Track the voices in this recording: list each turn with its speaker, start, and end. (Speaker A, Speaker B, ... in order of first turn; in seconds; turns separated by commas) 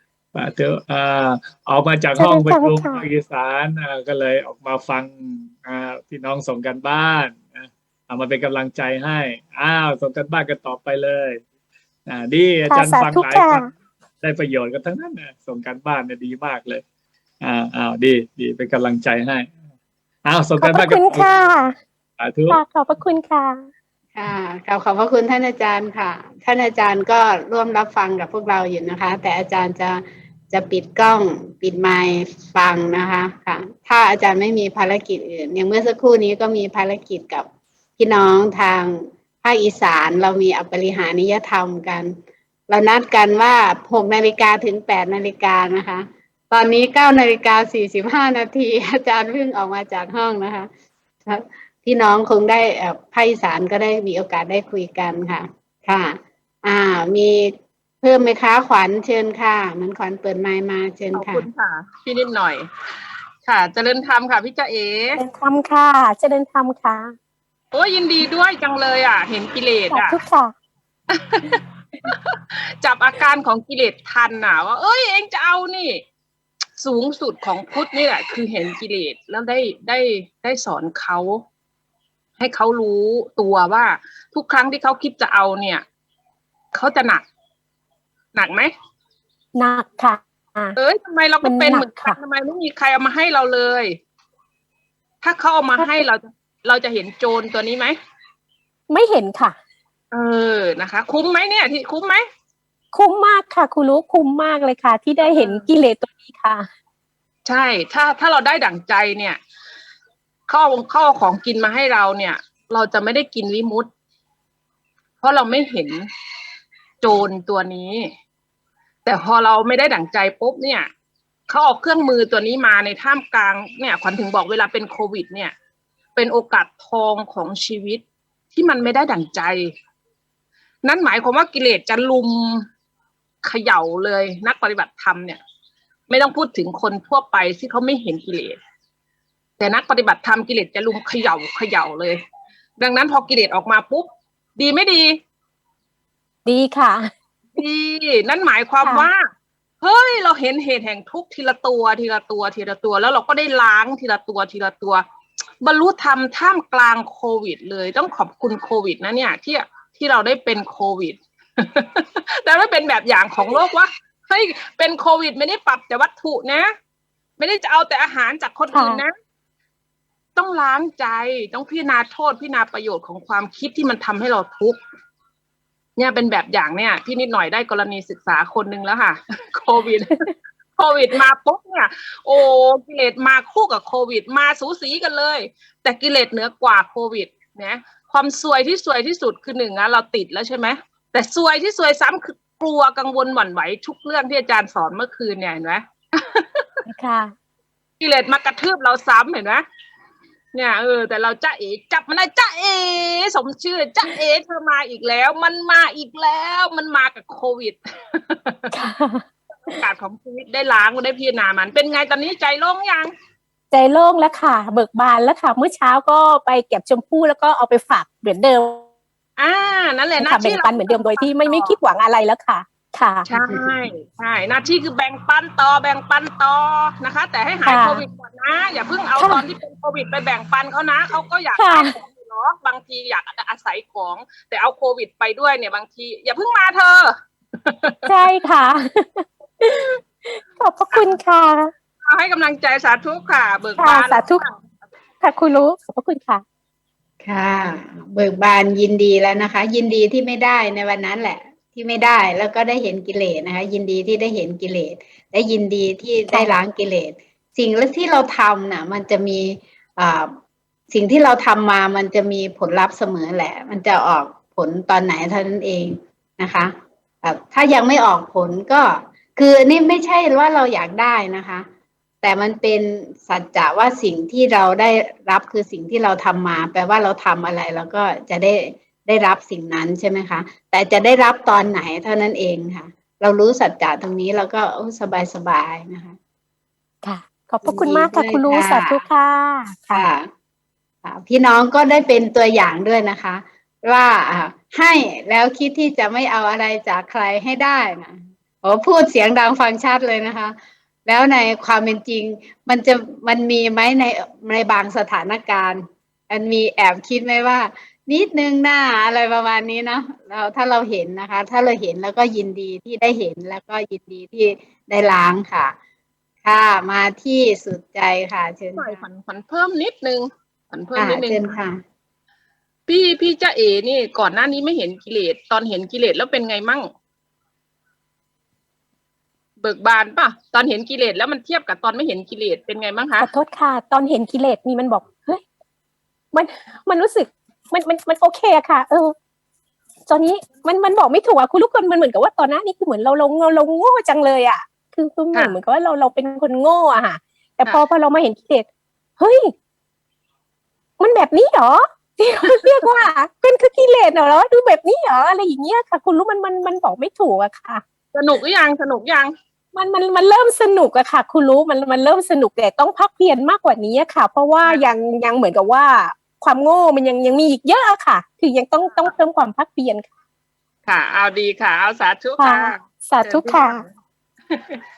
Speaker A: 0.3-11.4, Speaker B: 2.2-3.0, Speaker A: 12.1-13.7, Speaker B: 12.7-13.7, Speaker A: 14.2-16.8, Speaker A: 17.4-19.5, Speaker A: 20.2-21.3, Speaker B: 20.6-21.7, Speaker A: 22.2-22.6, Speaker B: 22.5-23.6, Speaker C: 24.1-37.5, Speaker C: 38.0-42.1, Speaker C: 42.7-50.7, Speaker C: 51.3-61.5, Speaker D: 61.1-62.6, Speaker D: 63.5-65.2, Speaker B: 65.2-67.1, Speaker D: 67.7-70.2, Speaker B: 69.9-70.5, Speaker D: 71.1-76.0, Speaker D: 76.8-81.4, Speaker D: 82.4-85.8, Speaker D: 86.7-87.2, Speaker D: 88.3-88.7, Speaker B: 89.5-90.8, Speaker D: 90.8-94.0, Speaker B: 91.4-92.2, Speaker D: 95.2-97.9, Speaker B: 95.8-96.0, Speaker B: 98.9-99.6, Speaker D: 100.1-102.2, Speaker B: 102.9-106.7, Speaker D: 105.2-105.7, Speaker D: 107.5-109.4, Speaker D: 110.5-113.9, Speaker D: 115.2-116.0, Speaker D: 117.0-118.1, Speaker D: 119.0-120.9, Speaker D: 121.5-125.5, Speaker D: 126.2-129.7, Speaker D: 130.8-132.7, Speaker D: 133.4-135.4, Speaker D: 136.1-138.6, Speaker D: 139.6-142.2, Speaker D: 142.8-145.2, Speaker B: 146.5-147.1, Speaker D: 147.6-149.2, Speaker D: 149.8-155.0, Speaker D: 155.6-166.7, Speaker D: 167.4-169.1, Speaker B: 168.7-169.0, Speaker D: 170.4-174.8, Speaker D: 176.0-196.7, Speaker B: 196.9-197.3, Speaker D: 198.0-199.7, Speaker D: 200.5-208.7, Speaker B: 208.7-209.8, Speaker D: 209.7-213.1, Speaker B: 213.7-218.8, Speaker D: 219.4-221.8, Speaker B: 220.2-223.3, Speaker D: 223.3-237.1, Speaker C: 223.4-223.7, Speaker B: 227.7-228.0, Speaker B: 229.2-229.4, Speaker B: 231.6-231.9, Speaker D: 237.7-238.0, Speaker B: 238.1-241.7, Speaker D: 240.9-241.2, Speaker D: 242.1-244.6, Speaker B: 243.8-244.4, Speaker B: 245.2-246.4, Speaker C: 247.2-260.3, Speaker C: 260.9-266.7, Speaker C: 267.2-271.7, Speaker C: 272.2-286.2, Speaker B: 287.0-290.1, Speaker C: 287.6-289.1, Speaker C: 289.9-290.3, Speaker C: 291.0-300.6, Speaker C: 301.1-315.7, Speaker C: 316.4-319.0, Speaker D: 318.8-321.6, Speaker C: 321.0-321.8, Speaker D: 322.9-326.9, Speaker D: 329.6-333.3, Speaker B: 333.2-335.4, Speaker B: 336.3-339.1, Speaker B: 340.1-348.7, Speaker B: 349.2-349.5, Speaker B: 351.0-357.8, Speaker D: 352.4-353.1, Speaker D: 358.1-359.3, Speaker B: 359.7-370.1, Speaker D: 364.6-364.9, Speaker D: 370.9-373.9, Speaker B: 372.4-373.8, Speaker D: 374.5-374.8